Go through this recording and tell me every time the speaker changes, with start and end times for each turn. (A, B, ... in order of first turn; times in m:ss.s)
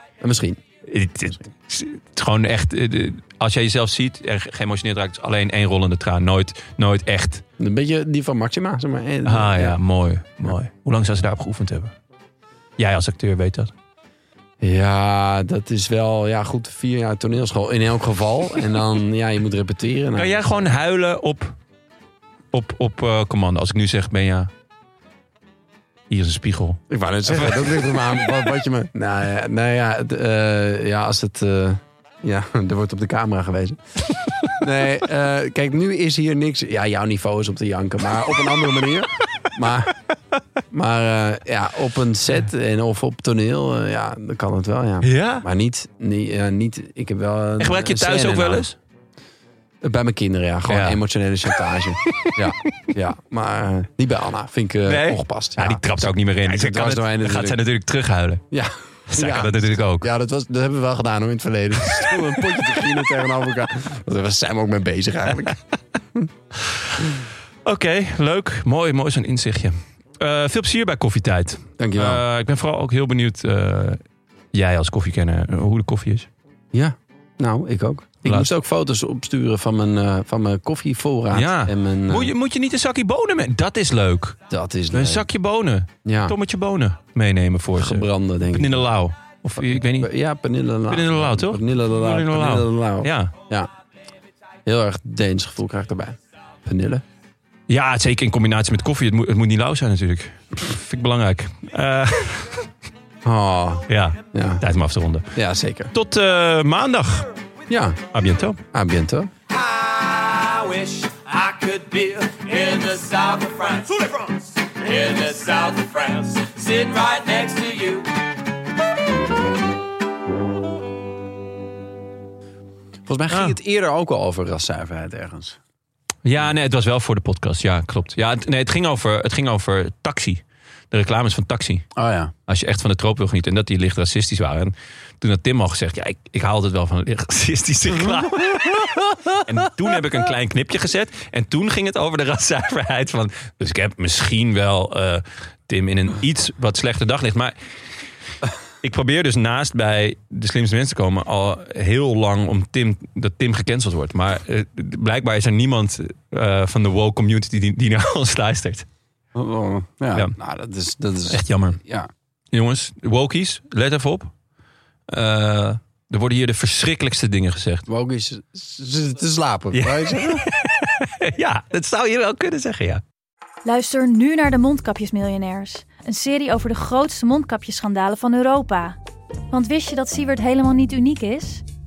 0:00.2-0:00.6 A
0:00.8-0:07.4 B
0:07.6-0:09.8 A
0:09.2-0:11.9 B
0:12.8-0:13.7 B
0:14.6-0:20.4 A
0:20.2-0:21.6 B
0:22.5-0:24.5 B
0:26.1-0:27.8 B
0:26.9-0:33.8 A
0:34.5-0:39.9 A
0:40.7-0:48.7 A
0:45.0-0:45.4 B
0:47.6-0:48.8 B
0:49.8-0:57.6 A
0:50.7-0:51.0 B
0:52.1-0:52.4 B
0:54.8-0:58.4 B
0:58.5-1:05.6 A
0:59.1-1:00.1 B
1:06.6-1:06.9 B
1:07.6-1:14.0 B
1:11.8-1:12.2 A
1:14.5-1:16.3 B
1:16.7-1:22.3 A
1:21.3-1:24.4 B
1:24.5-1:25.3 A
1:24.9-1:30.1 B
1:26.0-1:26.4 A
1:27.8-1:28.8 A
1:29.6-1:33.7 A
1:30.9-1:33.3 B
1:34.6-1:37.0 A
1:37.7-1:42.6 B
1:43.2-1:44.6 A
1:43.9-1:45.3 B
1:45.3-1:45.9 A
1:45.9-1:47.3 B
1:47.7-1:48.0 A
1:48.1-1:48.6 B
1:48.7-1:49.3 A
1:49.5-1:58.2 C
2:03.0-2:05.6 A
2:06.2-2:11.9 B
2:12.0-2:12.3 A
2:12.5-2:27.5 B
2:28.8-2:38.8 B
2:39.3-2:42.1 A
2:41.3-2:41.8 B
2:42.5-2:44.3 B
2:45.1-2:47.8 B
2:47.9-2:50.4 A
2:49.7-2:53.0 B
2:53.6-2:59.0 D
2:59.5-3:01.6 D